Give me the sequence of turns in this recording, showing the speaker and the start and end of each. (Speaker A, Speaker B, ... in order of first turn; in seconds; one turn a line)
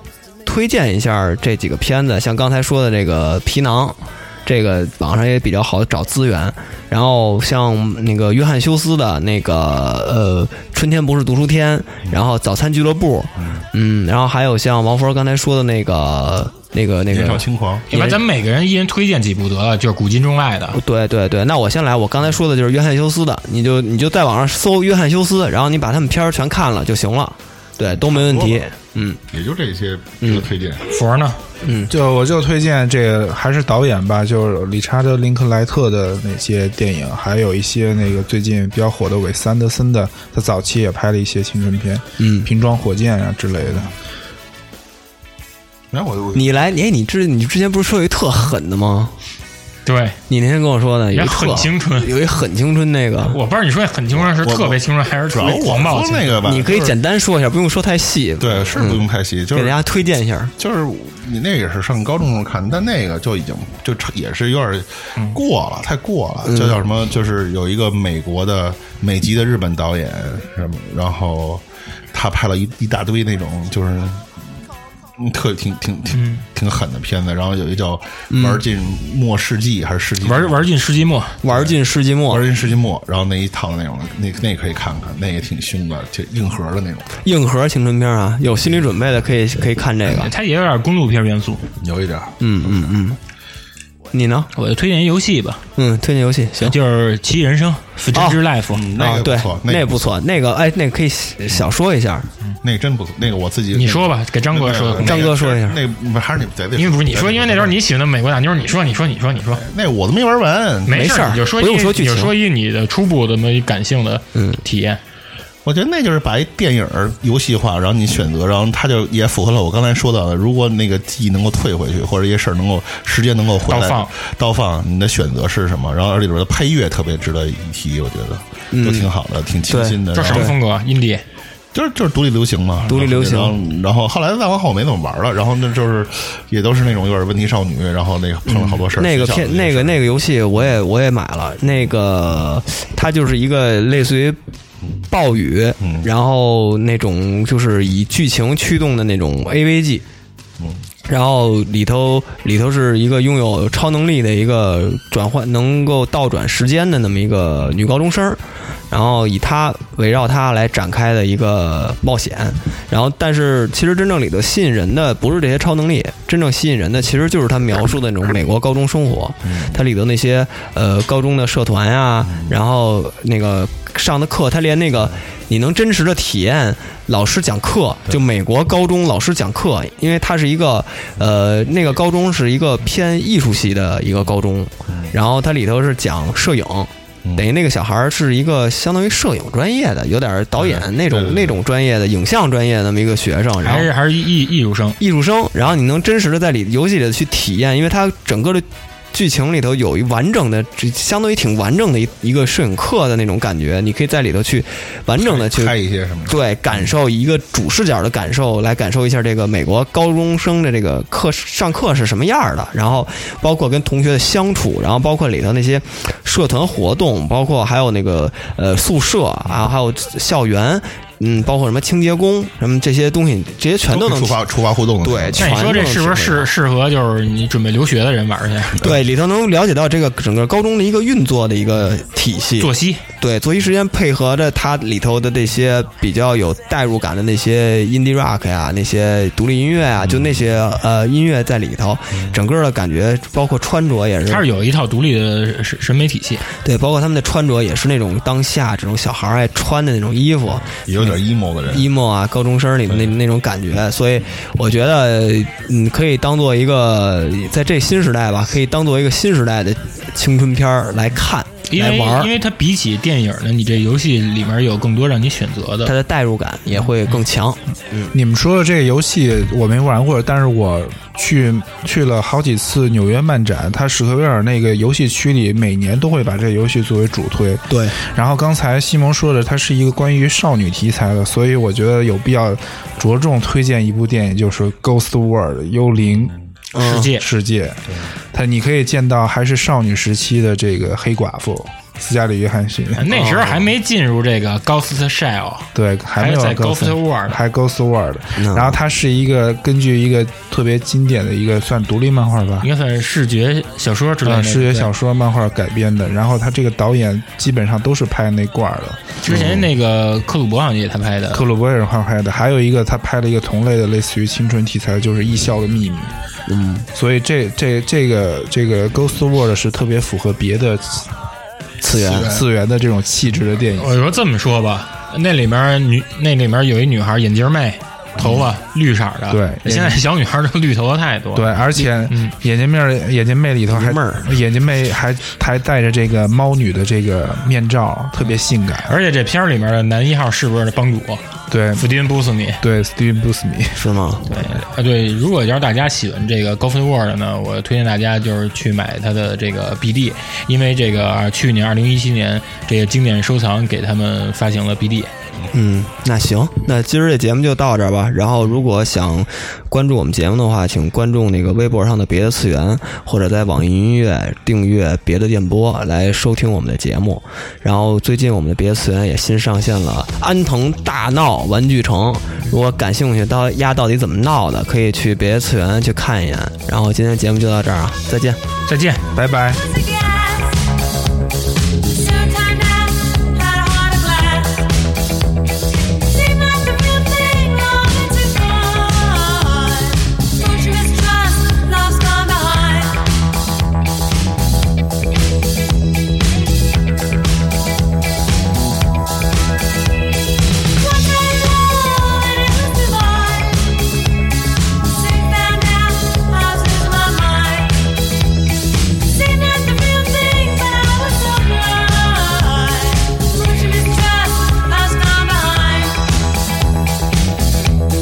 Speaker A: 0.5-18.2
Speaker B: 17.1-17.9
Speaker C: 17.9-20.8
Speaker A: 20.7-29.2
Speaker B: 28.0-28.7
Speaker B: 29.3-30.9
Speaker A: 30.2-30.5
Speaker C: 30.9-31.4
Speaker A: 31.6-31.9
Speaker D: 31.9-43.9
Speaker A: 42.2-42.5
Speaker B: 45.9-46.5
Speaker A: 46.3-49.1
Speaker C: 49.9-50.2
Speaker A: 50.3-53.4
Speaker C: 51.1-52.1
Speaker C: 53.3-56.9
Speaker B: 54.1-56.9
Speaker A: 56.4-60.5
Speaker B: 58.4-59.8
Speaker B: 60.6-74.3
Speaker A: 66.5-66.8
Speaker B: 75.2-80.6
Speaker C: 76.2-76.4
Speaker A: 78.3-78.6
Speaker C: 80.2-81.4
Speaker A: 81.4-82.5
Speaker B: 81.5-81.8
Speaker B: 82.3-87.1
Speaker A: 87.2-90.3
Speaker C: 90.1-91.7
Speaker B: 91.8-92.3
Speaker A: 92.4-93.2
Speaker A: 94.1-94.5
Speaker C: 94.6-95.6
Speaker A: 95.8-96.8
Speaker C: 96.6-98.9
Speaker A: 98.1-98.4
Speaker B: 98.7-99.9
Speaker A: 99.0-102.3
Speaker B: 102.6-107.7
Speaker C: 103.7-105.3
Speaker A: 105.0-105.8
Speaker C: 106.8-109.6
Speaker B: 109.5-111.0
Speaker C: 110.9-115.0
Speaker A: 110.9-112.3
Speaker A: 114.3-114.6
Speaker B: 115.7-130.6
Speaker C: 123.7-124.1
Speaker A: 128.7-129.1
Speaker A: 129.7-130.6
Speaker C: 130.1-131.2
Speaker B: 131.7-140.0
Speaker A: 132.9-133.6
Speaker A: 138.5-144.4
Speaker A: 145.1-150.0
Speaker B: 145.8-146.1
Speaker A: 151.1-193.9
Speaker B: 169.5-169.8
Speaker B: 190.6-191.5
Speaker C: 193.6-195.0
Speaker A: 195.0-205.8
Speaker B: 205.2-206.4
Speaker A: 206.3-224.4
Speaker B: 223.9-225.6
Speaker A: 225.0-226.5
Speaker C: 225.4-228.9
Speaker A: 228.8-244.4
Speaker C: 232.6-233.0
Speaker C: 244.3-246.4
Speaker A: 246.6-251.1
Speaker B: 250.9-251.9
Speaker A: 251.7-262.3
Speaker C: 261.7-265.9
Speaker A: 265.9-268.1
Speaker D: 268.1-286.3
Speaker A: 277.7-278.0
Speaker A: 286.7-287.1
Speaker C: 286.8-287.3
Speaker D: 287.1-293.2
Speaker C: 293.0-297.4
Speaker A: 293.1-293.7
Speaker D: 295.8-302.7
Speaker A: 298.4-298.7
Speaker C: 302.6-304.9
Speaker D: 304.2-309.1
Speaker C: 309.2-311.4
Speaker D: 311.3-316.1
Speaker A: 316.5-316.9
Speaker D: 316.9-321.1
Speaker A: 321.8-322.4
Speaker D: 321.9-323.9
Speaker C: 323.8-332.3
Speaker D: 329.3-330.0
Speaker D: 331.4-339.0
Speaker A: 333.7-334.3
Speaker C: 338.9-342.6
Speaker D: 341.5-341.9
Speaker D: 342.6-343.8
Speaker A: 343.8-344.3
Speaker C: 344.3-355.1
Speaker A: 355.5-378.4
Speaker C: 378.7-379.0
Speaker D: 379.1-379.6
Speaker E: 379.5-380.7
Speaker E: 381.8-384.9
Speaker E: 385.8-393.3
Speaker E: 400.6-403.9
Speaker E: 404.8-408.1
Speaker E: 408.8-416.1